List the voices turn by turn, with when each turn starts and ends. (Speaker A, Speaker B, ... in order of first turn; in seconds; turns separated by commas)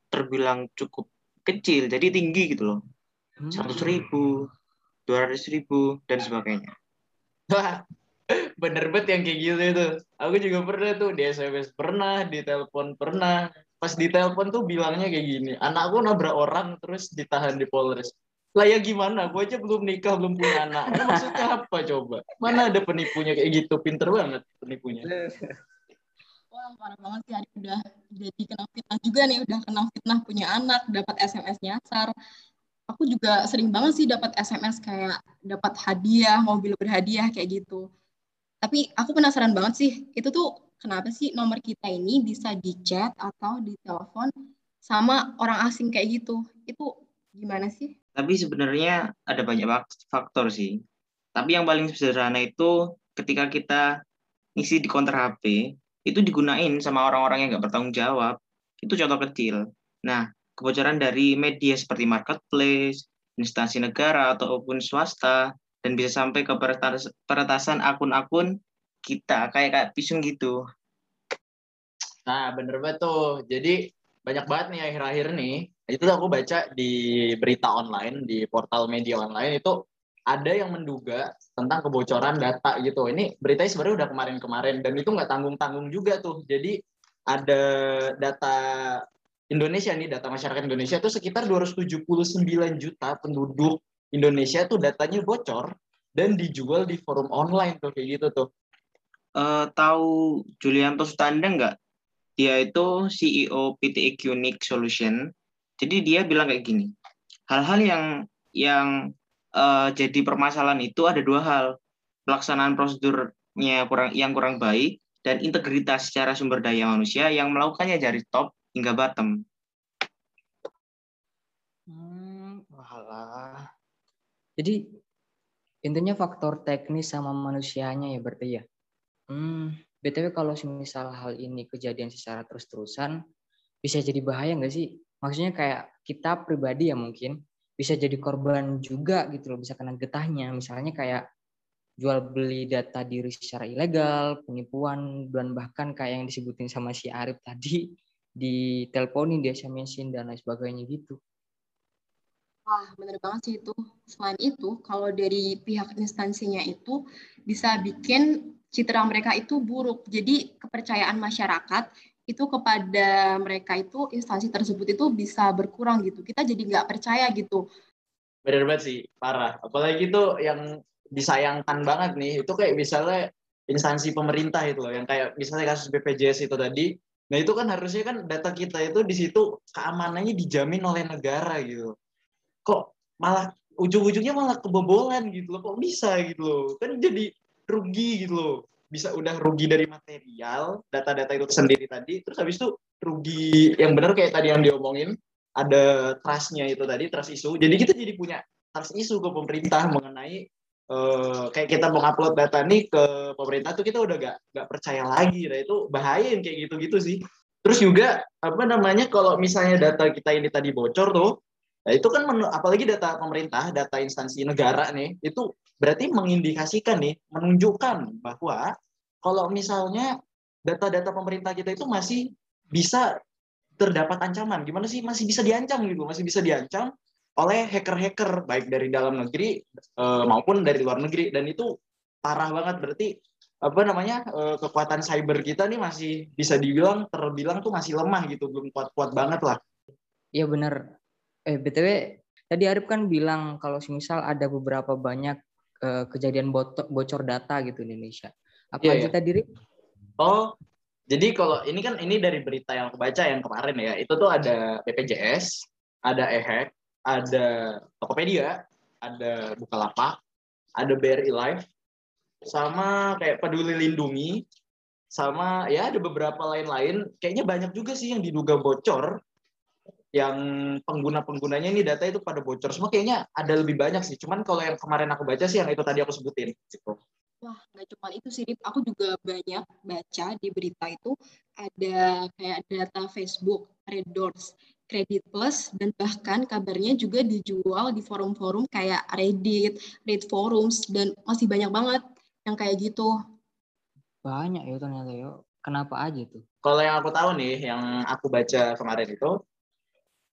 Speaker A: 0.1-2.8, Speaker B: 3.4-3.9, Speaker A: 3.5-4.4, Speaker A: 5.1-6.7, Speaker C: 7.5-7.8, Speaker C: 8.6-25.1, Speaker B: 20.5-21.4, Speaker B: 25.1-25.6, Speaker D: 26.5-32.1, Speaker D: 32.9-37.9, Speaker D: 38.6-44.3, Speaker D: 44.8-47.9, Speaker A: 48.1-50.7, Speaker A: 51.4-53.8, Speaker A: 54.6-68.5, Speaker A: 69.1-70.5, Speaker C: 72.3-79.8, Speaker C: 80.3-86.7, Speaker C: 87.3-87.6, Speaker C: 88.2-98.5, Speaker A: 99.4-100.1, Speaker A: 100.6-101.7, Speaker A: 102.4-105.2, Speaker A: 105.8-106.9, Speaker A: 107.5-108.0, Speaker A: 108.6-108.9, Speaker A: 109.6-111.7, Speaker A: 112.3-119.3, Speaker B: 121.9-123.7, Speaker B: 125.9-128.6, Speaker B: 129.3-133.1, Speaker B: 133.8-141.2, Speaker B: 142.0-147.8, Speaker B: 148.4-151.2, Speaker D: 152.7-167.6, Speaker C: 168.5-170.6, Speaker C: 171.2-181.9, Speaker C: 182.7-211.3, Speaker C: 211.9-218.7, Speaker C: 219.2-220.1, Speaker C: 220.7-223.1, Speaker C: 223.8-231.7, Speaker C: 232.2-233.1, Speaker C: 233.6-239.6, Speaker B: 240.4-240.8, Speaker B: 241.5-242.0, Speaker B: 242.5-249.4, Speaker C: 248.8-249.1, Speaker C: 250.2-250.5, Speaker C: 251.1-260.2, Speaker C: 260.8-261.6, Speaker C: 262.5-264.4, Speaker C: 265.1-269.1, Speaker C: 270.1-277.0, Speaker D: 277.4-293.1, Speaker B: 294.2-296.4, Speaker C: 296.6-299.3